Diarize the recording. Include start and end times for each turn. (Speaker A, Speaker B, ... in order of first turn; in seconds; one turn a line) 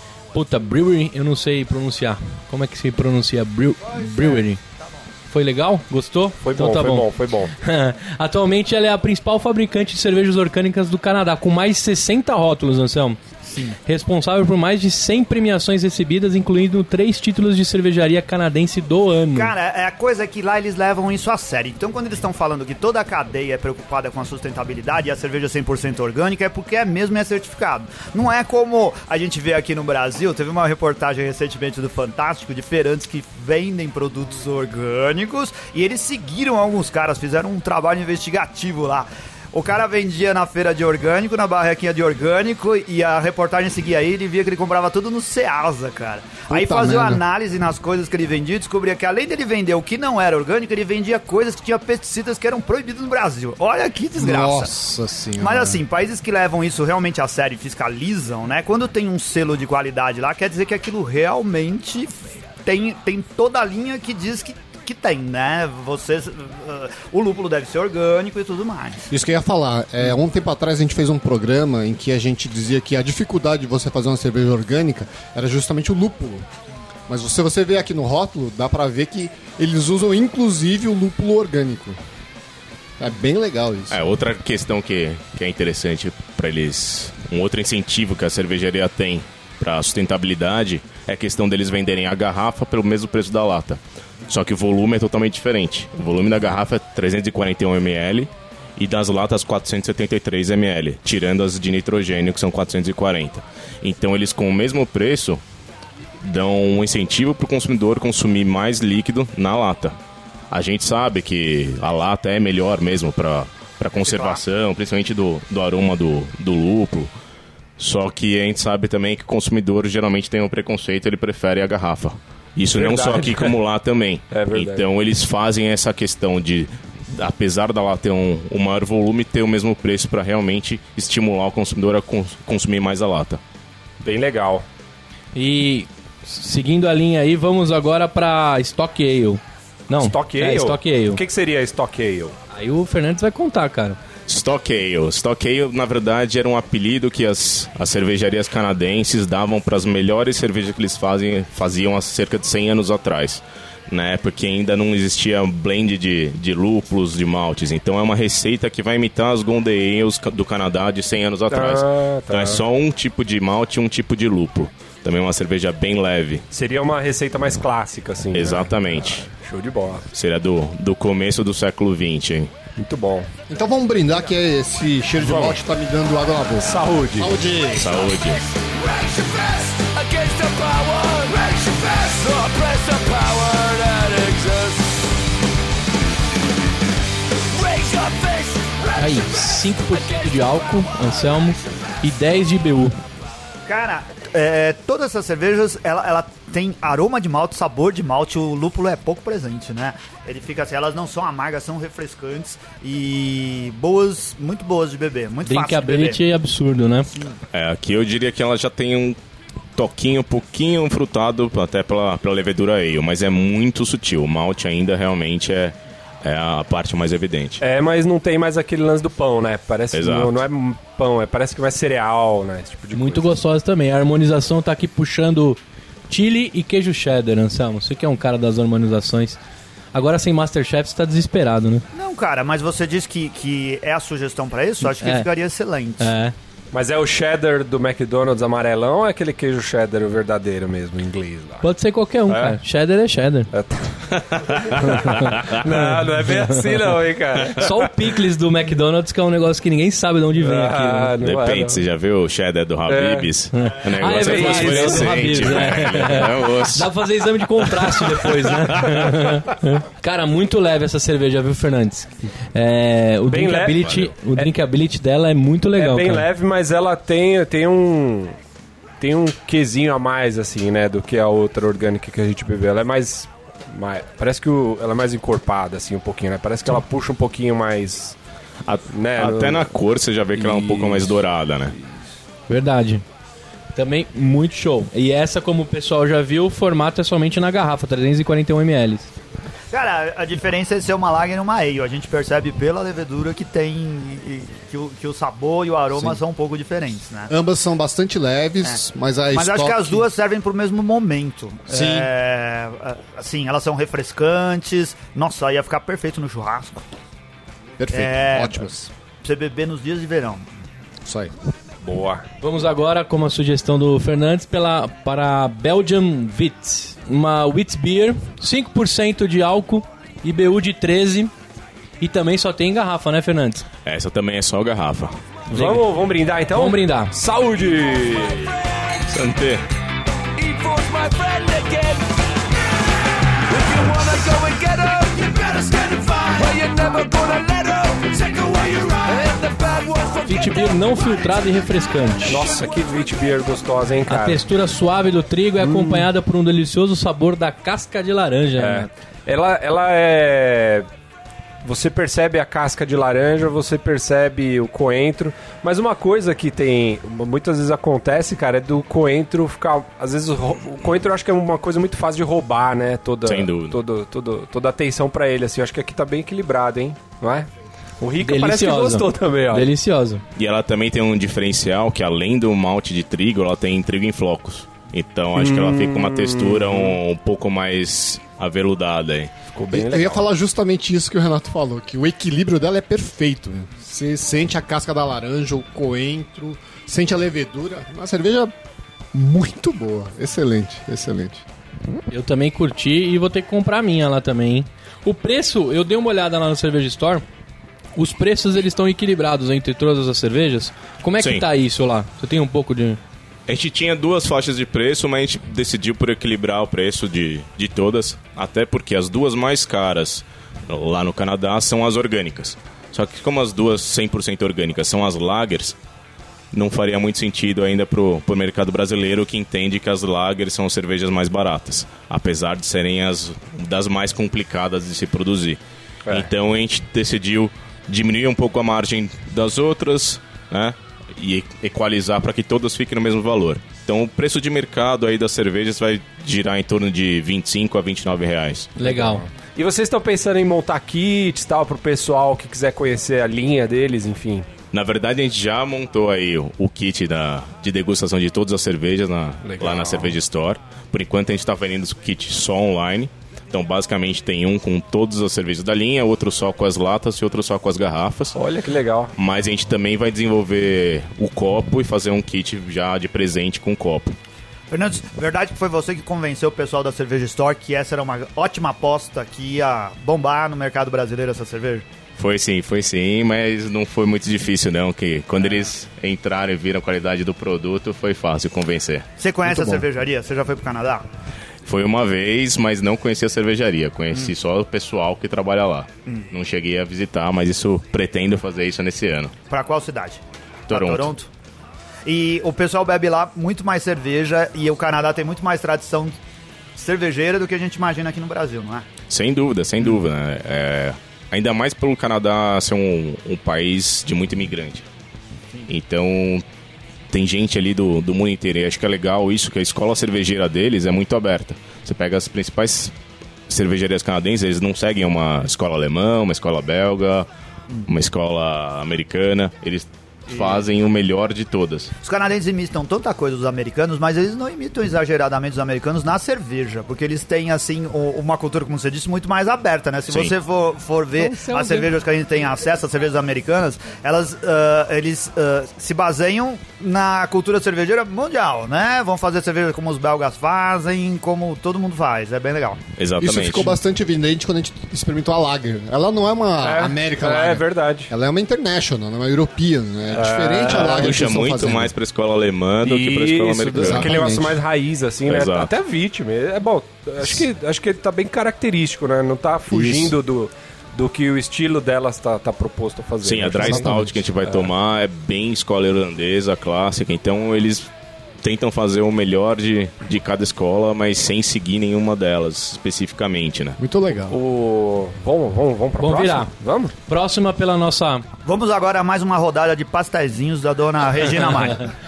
Speaker A: 0.3-4.6
Speaker B: 4.0-4.4
Speaker A: 5.3-19.5
Speaker C: 6.4-7.5
Speaker B: 19.3-54.7
Speaker D: 46.5-47.2
Speaker D: 54.2-55.8
Speaker B: 55.4-69.0
Speaker D: 69.1-76.5
Speaker D: 77.1-82.0
Speaker D: 83.0-84.0
Speaker E: 83.9-105.4
Speaker E: 106.2-110.0
Speaker E: 110.5-117.1
Speaker E: 117.8-133.4
Speaker C: 122.7-123.6
Speaker C: 124.3-124.8
Speaker C: 134.0-134.6
Speaker A: 135.3-141.2
Speaker C: 140.0-142.3
Speaker A: 142.5-144.0
Speaker E: 144.3-166.4
Speaker C: 161.5-162.6
Speaker C: 166.5-170.1
Speaker E: 168.3-169.3
Speaker E: 170.1-172.5
Speaker C: 172.8-173.3
Speaker D: 173.5-178.0
Speaker C: 175.2-175.6
Speaker C: 176.6-177.3
Speaker E: 177.8-178.4
Speaker F: 178.0-185.1
Speaker F: 187.5-191.1
Speaker A: 189.0-193.0
Speaker B: 193.7-206.2
Speaker A: 205.4-207.1
Speaker E: 207.5-209.2
Speaker E: 209.7-217.6
Speaker C: 217.6-223.3
Speaker E: 219.9-220.3
Speaker A: 222.9-229.4
Speaker A: 229.9-231.8
Speaker B: 231.9-236.1
Speaker A: 234.8-235.3
Speaker A: 236.0-236.3
Speaker C: 236.7-241.7
Speaker A: 241.6-243.5
Speaker C: 242.3-242.6
Speaker C: 243.5-247.8
Speaker E: 244.2-245.6
Speaker A: 245.0-245.3
Speaker A: 246.3-246.8
Speaker A: 247.5-251.1
Speaker C: 250.4-251.8
Speaker E: 251.2-256.9
Speaker C: 252.9-253.3
Speaker A: 253.5-266.2
Speaker C: 254.0-255.6
Speaker C: 263.3-264.5
Speaker C: 265.8-268.4
Speaker C: 269.0-278.1
Speaker E: 278.6-281.7
Speaker C: 278.9-279.7
Speaker C: 280.4-281.2
Speaker A: 282.5-283.0
Speaker A: 283.7-289.1
Speaker B: 289.7-297.3
Speaker D: 297.3-300.1
Speaker B: 299.3-306.8
Speaker D: 301.7-302.1
Speaker D: 307.8-308.9
Speaker B: 307.9-308.7
Speaker B: 309.2-310.5
Speaker D: 311.0-311.3
Speaker C: 311.8-312.2
Speaker A: 312.4-321.3
Speaker A: 322.0-323.6
Speaker E: 323.8-325.2
Speaker C: 325.5-328.4
Speaker A: 325.5-325.8
Speaker A: 326.5-327.1
Speaker E: 329.1-329.6
Speaker F: 330.4-332.4
Speaker F: 333.5-341.5
Speaker A: 340.2-342.4
Speaker C: 342.3-344.4
Speaker A: 344.1-348.9
Speaker C: 345.6-346.1
Speaker C: 348.6-350.9
Speaker C: 351.6-367.5
Speaker E: 363.2-363.8
Speaker C: 368.0-369.7
Speaker A: 368.2-370.2
Speaker E: 370.4-379.3
Speaker C: 375.4-377.0
Speaker C: 379.5-380.2
Speaker D: 379.7-388.5
Speaker D: 389.1-391.4
Speaker A: 392.1-397.2
Speaker A: 397.9-403.0
Speaker E: 403.5-415.7
Speaker E: 416.5-438.8
Speaker A: 438.8-439.2
Speaker C: 438.8-444.5
Speaker E: 444.7-458.4
Speaker C: 449.4-450.2
Speaker C: 458.3-459.1
Speaker E: 459.1-464.1
Speaker B: 464.7-471.8
Speaker E: 472.2-479.0
Speaker B: 479.2-481.0
Speaker D: 479.4-479.9
Speaker E: 481.6-489.3
Speaker B: 489.5-491.3
Speaker E: 490.7-491.1
Speaker B: 492.1-496.2
Speaker B: 496.7-498.9
Speaker E: 499.1-504.8
Speaker E: 505.7-506.4
Speaker E: 507.1-512.9
Speaker E: 513.5-517.2
Speaker E: 517.9-521.9
Speaker B: 520.3-520.6
Speaker B: 522.0-542.8
Speaker A: 531.2-531.9
Speaker E: 543.0-543.7
Speaker D: 543.2-551.9
Speaker C: 546.6-548.1
Speaker C: 550.1-551.2
Speaker E: 550.5-554.2
Speaker C: 552.8-564.7
Speaker D: 553.7-554.6
Speaker E: 555.3-555.7
Speaker D: 559.7-560.1
Speaker E: 563.2-567.9
Speaker D: 563.6-564.2
Speaker E: 568.4-573.8
Speaker D: 573.8-574.4
Speaker C: 574.3-576.9
Speaker A: 576.0-576.5
Speaker A: 577.0-578.2
Speaker B: 578.4-581.9